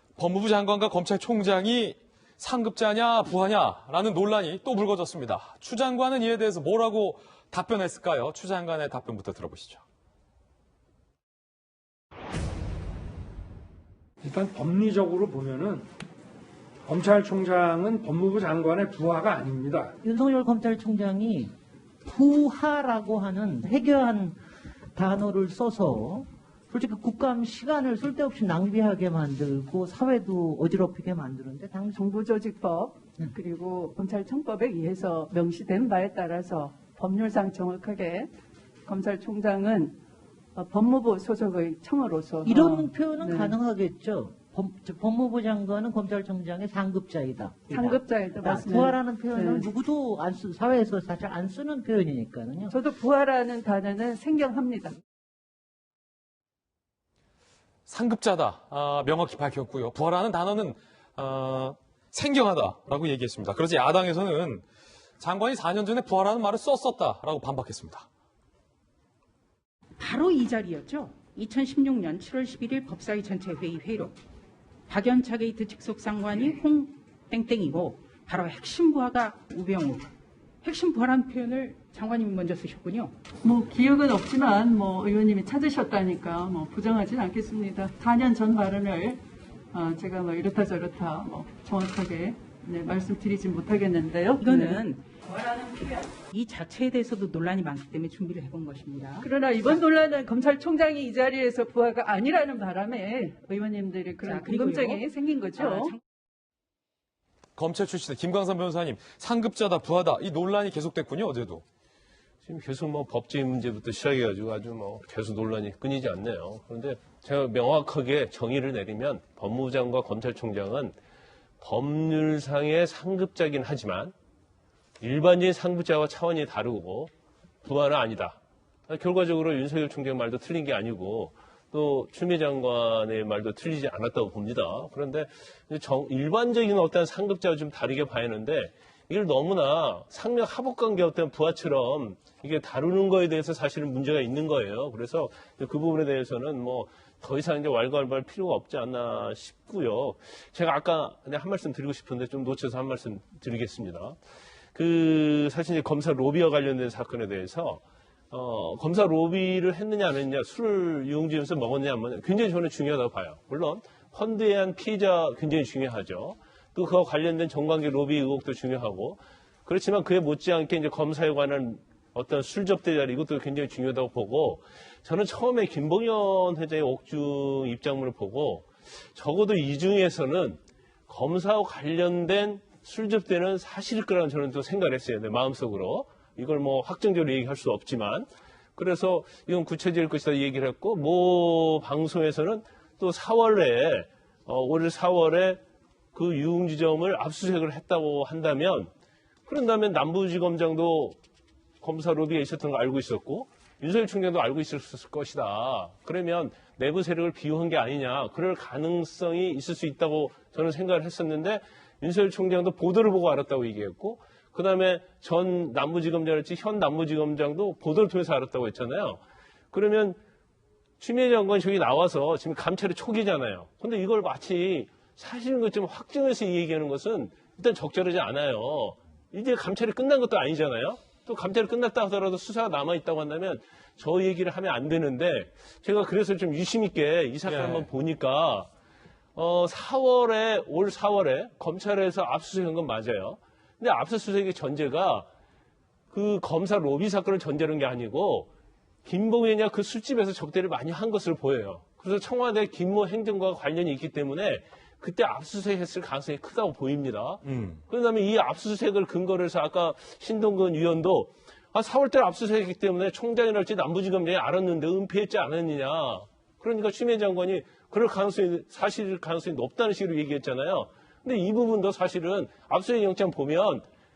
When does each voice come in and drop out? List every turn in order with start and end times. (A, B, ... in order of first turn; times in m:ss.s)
0:00.2-0:09.8 A
0:14.2-0:15.9 B
0:16.9-0:20.0 B
0:20.0-0:21.5 C
0:22.0-0:24.4 C
0:25.0-0:32.0 C
0:31.9-0:38.3 D
0:38.9-0:40.0 D
0:40.6-0:43.6 D
0:42.4-0:52.8 C
0:47.7-0:49.7 D
0:52.7-0:55.0 D
0:57.9-1:04.6 A
1:05.2-1:08.1 A
1:10.0-1:14.2 E
1:14.9-1:20.1 E
1:20.6-1:23.1 E
1:23.4-1:29.2 D
1:29.7-1:34.8 D
1:34.4-1:39.3 E
1:39.2-1:45.9 D
1:44.3-1:45.0 E
1:45.6-1:46.0 E
1:47.6-1:51.6 A
1:52.4-2:01.0 F
2:01.6-2:04.1 F
2:05.0-2:07.1 F
2:07.6-2:34.2 F
2:34.7-3:15.6 F
3:16.1-3:18.9 F
3:19.5-3:21.2 F
3:21.8-3:40.2 F
3:41.0-3:58.7 F
3:57.5-3:57.9 A
3:59.4-4:05.3 F
4:06.1-4:08.5 F
4:09.0-4:33.9 F
4:17.4-4:17.8 A